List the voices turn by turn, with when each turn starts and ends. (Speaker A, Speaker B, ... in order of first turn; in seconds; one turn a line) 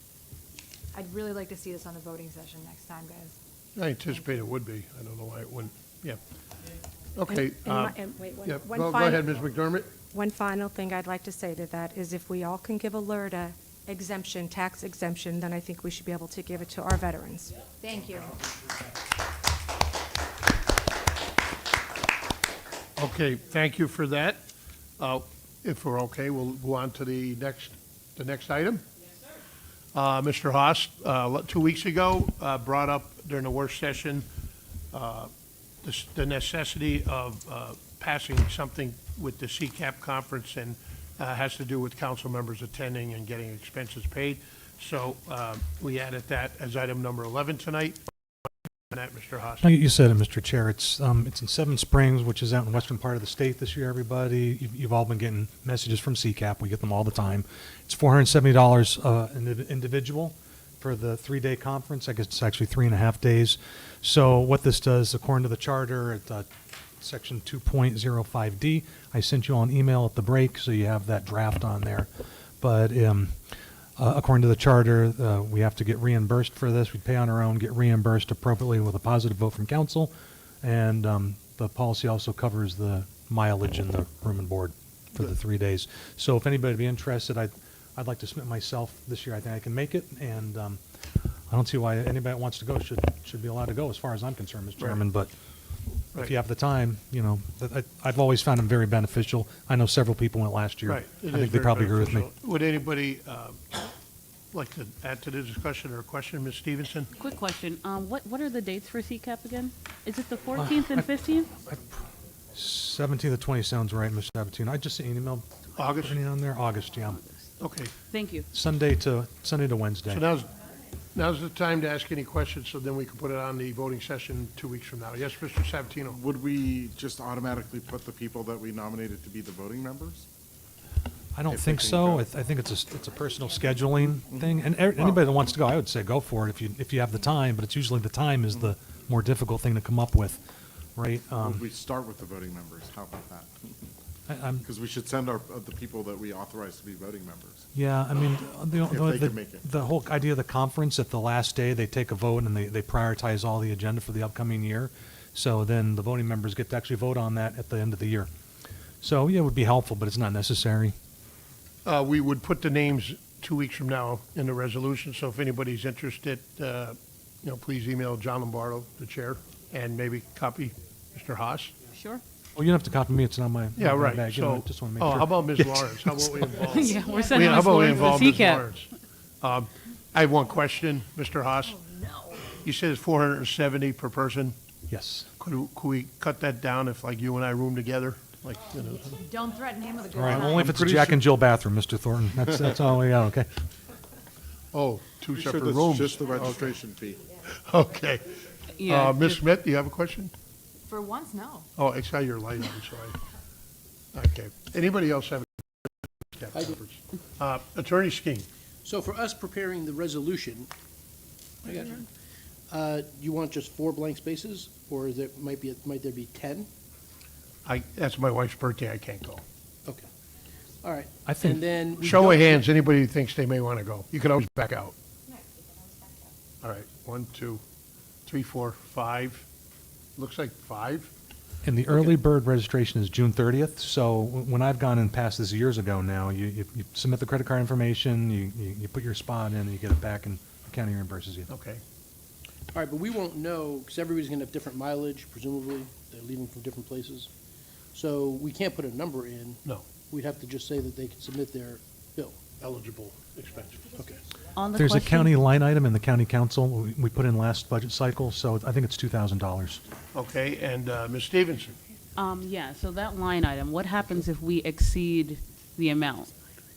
Speaker A: 0.9-3.4
Speaker B: 3.7-6.2
Speaker A: 4.1-4.4
Speaker B: 7.1-9.9
Speaker C: 7.2-9.3
Speaker C: 9.9-17.5
Speaker A: 17.8-18.4
Speaker B: 23.0-24.5
Speaker B: 25.0-28.8
Speaker B: 29.9-34.2
Speaker B: 34.9-35.3
Speaker B: 35.8-48.0
Speaker B: 48.9-49.7
Speaker D: 49.6-66.5
Speaker D: 67.0-72.1
Speaker D: 72.6-73.3
Speaker D: 74.0-80.1
Speaker D: 80.6-90.8
Speaker D: 91.5-95.3
Speaker D: 96.2-102.2
Speaker B: 100.9-103.9
Speaker B: 104.5-107.1
Speaker E: 107.2-111.5
Speaker D: 110.5-112.0
Speaker D: 112.5-117.2
Speaker B: 115.8-116.2
Speaker B: 117.6-117.9
Speaker E: 118.1-118.5
Speaker D: 118.5-120.2
Speaker B: 120.1-120.5
Speaker B: 121.1-126.2
Speaker F: 126.1-130.2
Speaker D: 131.3-140.4
Speaker F: 131.6-132.2
Speaker F: 135.0-135.2
Speaker D: 140.9-141.6
Speaker F: 141.4-143.8
Speaker D: 144.3-144.6
Speaker F: 144.6-147.6
Speaker D: 147.7-158.3
Speaker F: 148.9-149.6
Speaker D: 159.0-160.9
Speaker B: 161.8-171.8
Speaker E: 171.9-172.2
Speaker D: 172.6-176.4
Speaker B: 173.8-178.9
Speaker E: 176.6-178.7
Speaker A: 176.8-178.4
Speaker B: 179.4-181.8
Speaker A: 181.6-182.5
Speaker B: 182.5-184.6
Speaker D: 184.9-185.3
Speaker B: 185.4-189.2
Speaker A: 189.0-190.7
Speaker D: 190.1-193.5
Speaker B: 190.2-191.3
Speaker B: 194.7-196.7
Speaker F: 195.3-197.3
Speaker B: 197.4-198.3
Speaker E: 198.8-199.4
Speaker B: 198.8-200.3
Speaker A: 200.9-201.7
Speaker B: 201.8-203.2
Speaker B: 204.1-208.5
Speaker G: 206.5-206.8
Speaker G: 208.8-210.7
Speaker G: 211.6-212.1
Speaker G: 212.7-216.7
Speaker B: 217.6-219.4
Speaker G: 220.8-222.6
Speaker D: 221.2-222.4
Speaker B: 222.0-224.9
Speaker C: 225.4-226.2
Speaker B: 226.6-227.6
Speaker B: 228.2-229.4
Speaker B: 230.2-231.1
Speaker D: 231.6-241.5
Speaker B: 241.5-241.8
Speaker G: 242.7-247.3
Speaker G: 247.9-252.4
Speaker B: 252.6-253.9
Speaker G: 253.9-254.2
Speaker E: 254.5-255.4
Speaker D: 254.7-259.8
Speaker B: 260.1-261.8
Speaker E: 262.1-266.3